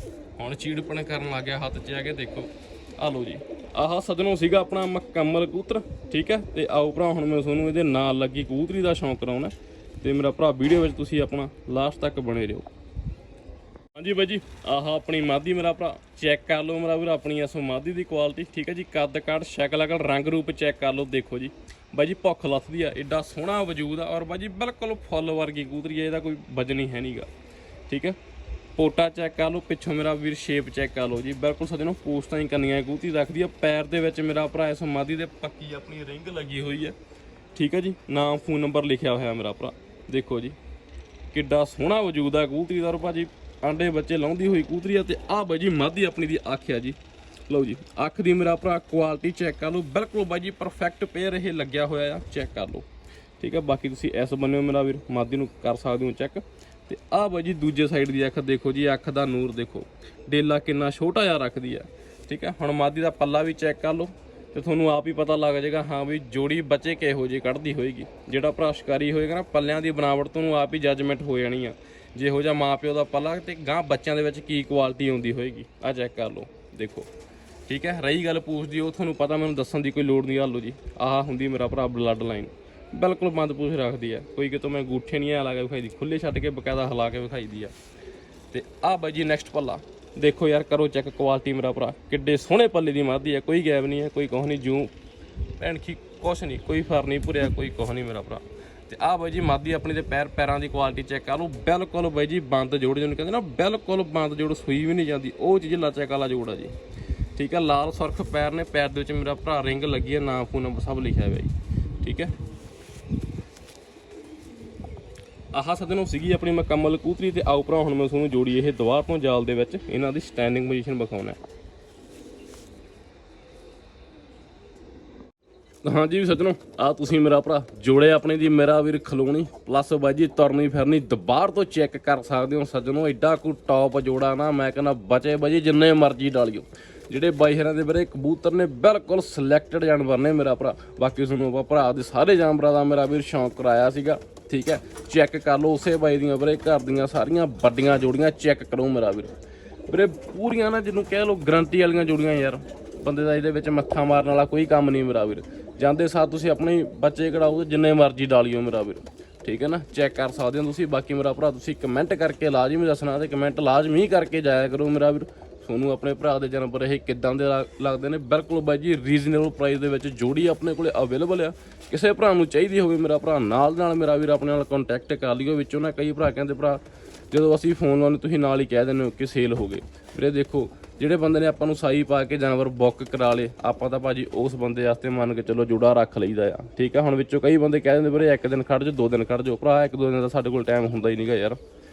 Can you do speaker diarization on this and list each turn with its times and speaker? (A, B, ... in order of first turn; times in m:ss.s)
0:00.4-0:12.7 A
0:14.0-0:27.3 A
0:27.9-0:28.2 A
0:28.8-0:37.0 A
0:37.6-0:40.6 A
0:41.3-0:47.0 A
0:47.5-0:52.9 A
0:53.4-1:17.1 A
1:17.7-1:27.7 A
1:28.5-1:34.9 A
1:35.6-1:46.7 A
1:47.4-1:52.3 A
1:55.5-2:01.4 A
2:05.8-2:29.3 A
2:29.9-2:56.8 A
2:57.3-3:11.6 A